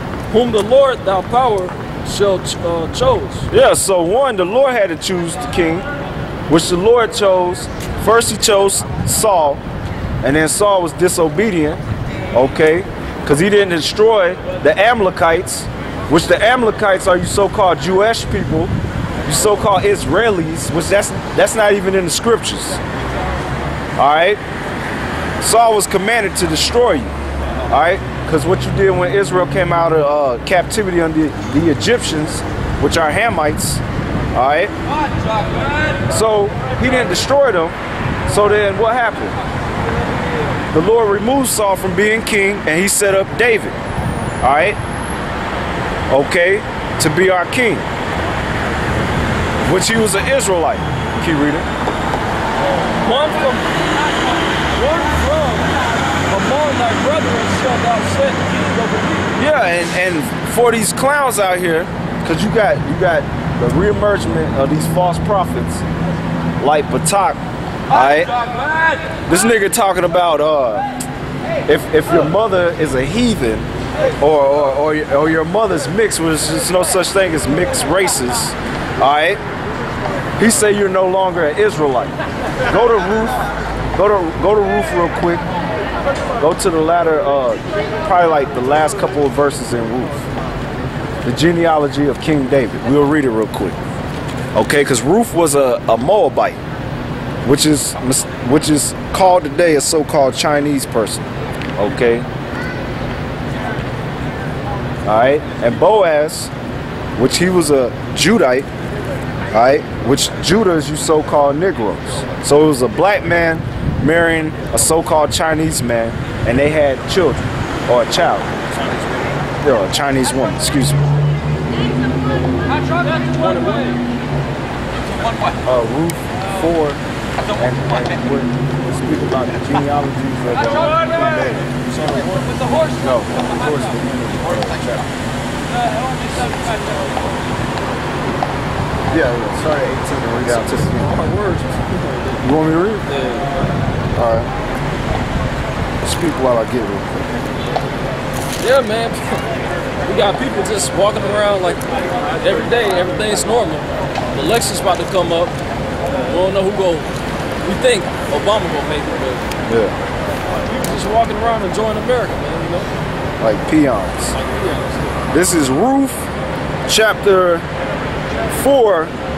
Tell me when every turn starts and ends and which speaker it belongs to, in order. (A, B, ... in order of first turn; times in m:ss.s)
0:00.3-0:03.5 A
0:03.5-0:05.9 B
0:06.5-0:09.6 B
0:10.2-0:11.8 B
0:12.3-0:18.7 B
0:19.2-0:22.8 B
0:24.0-0:24.4 B
0:25.4-0:27.1 B
0:27.7-0:33.8 B
0:34.3-0:34.7 B
0:36.1-0:37.8 B
0:38.3-0:39.4 B
0:40.7-0:43.8 B
0:44.4-0:44.8 B
0:46.1-0:47.9 B
0:49.6-0:51.7 B
0:52.8-0:53.7 A
0:54.7-0:59.3 A
0:59.4-1:05.8 B
1:06.6-1:08.4 B
1:09.3-1:10.8 B
1:11.7-1:13.7 B
1:14.2-1:19.4 B
1:20.4-1:22.2 B
1:22.7-1:25.4 B
1:26.4-1:30.2 B
1:31.2-1:33.8 B
1:34.6-1:36.6 B
1:37.4-1:42.3 B
1:45.1-1:46.5 B
1:47.2-1:48.7 B
1:49.5-1:58.6 B
1:58.8-1:59.3 A
1:59.6-2:01.0 B
2:03.1-2:04.0 A
2:05.6-2:07.0 B
2:07.6-2:11.7 B
2:11.9-2:12.6 A
2:13.0-2:15.1 B
2:16.3-2:16.8 B
2:19.1-2:21.2 B
2:21.0-2:22.4 A
2:22.4-2:23.3 B
2:23.2-2:23.4 A
2:24.2-2:24.5 B
2:26.0-2:27.2 B
2:28.6-2:29.5 A
2:30.0-2:35.6 A
2:36.2-2:37.1 A
2:37.6-2:39.5 A
2:39.7-2:40.0 B
2:40.7-2:42.9 A
2:43.4-2:44.4 B
2:44.3-2:45.2 A
2:45.3-2:46.3 B
2:46.9-2:47.7 B
2:48.5-2:49.1 B